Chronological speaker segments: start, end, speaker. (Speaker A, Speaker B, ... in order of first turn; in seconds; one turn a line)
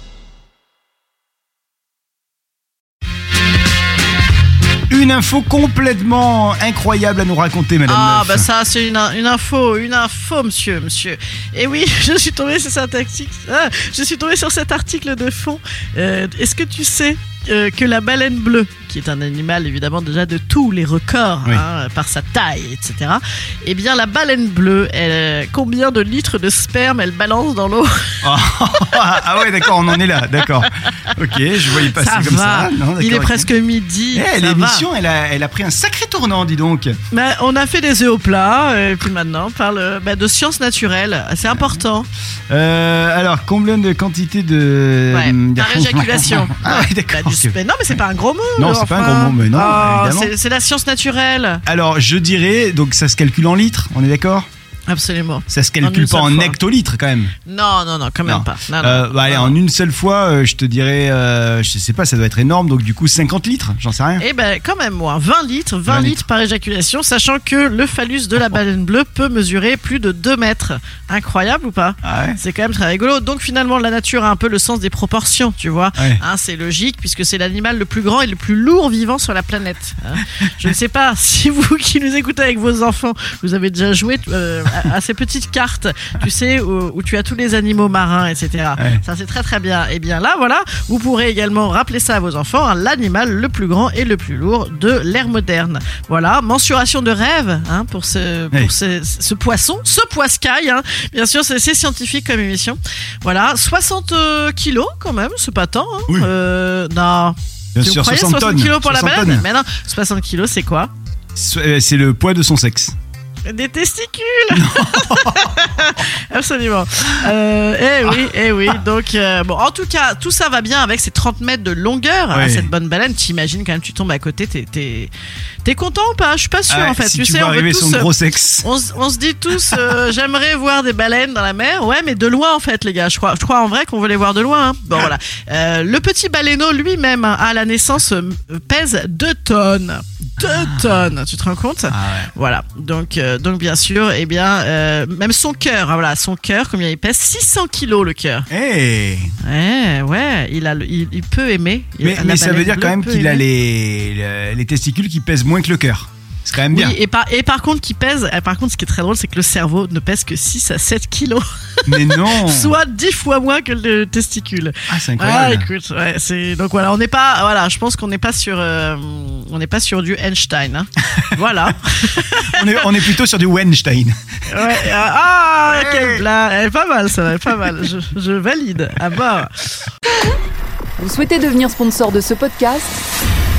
Speaker A: 4.9-8.5
Speaker B: 7.9-28.2
Speaker A: 28.2-33.5
Speaker B: 28.9-34.9
Speaker A: 34.1-36.9
Speaker B: 37.1-42.1
Speaker A: 42.5-47.6
Speaker B: 45.1-51.6
Speaker A: 48.6-50.3
Speaker A: 51.7-54.5
Speaker B: 54.9-56.6
Speaker A: 55.5-57.3
Speaker B: 57.5-59.5
Speaker A: 58.3-64.2
Speaker B: 64.2-110.9
Speaker A: 65.9-66.2
Speaker A: 72.0-72.4
Speaker A: 76.0-76.2
Speaker A: 88.8-89.0
Speaker A: 107.8-109.5
Speaker A: 111.3-113.0
Speaker B: 113.5-125.1
Speaker A: 114.5-115.6
Speaker A: 122.3-122.7
Speaker B: 125.6-148.5
Speaker A: 126.7-128.7
Speaker A: 141.9-142.3
Speaker A: 148.5-149.3
Speaker B: 149.4-153.4
Speaker A: 152.0-157.0
Speaker B: 156.7-173.0
Speaker A: 161.9-162.8
Speaker A: 164.9-165.7
Speaker A: 172.5-174.9
Speaker B: 174.5-179.6
Speaker A: 175.7-176.2
Speaker C: 181.0-183.0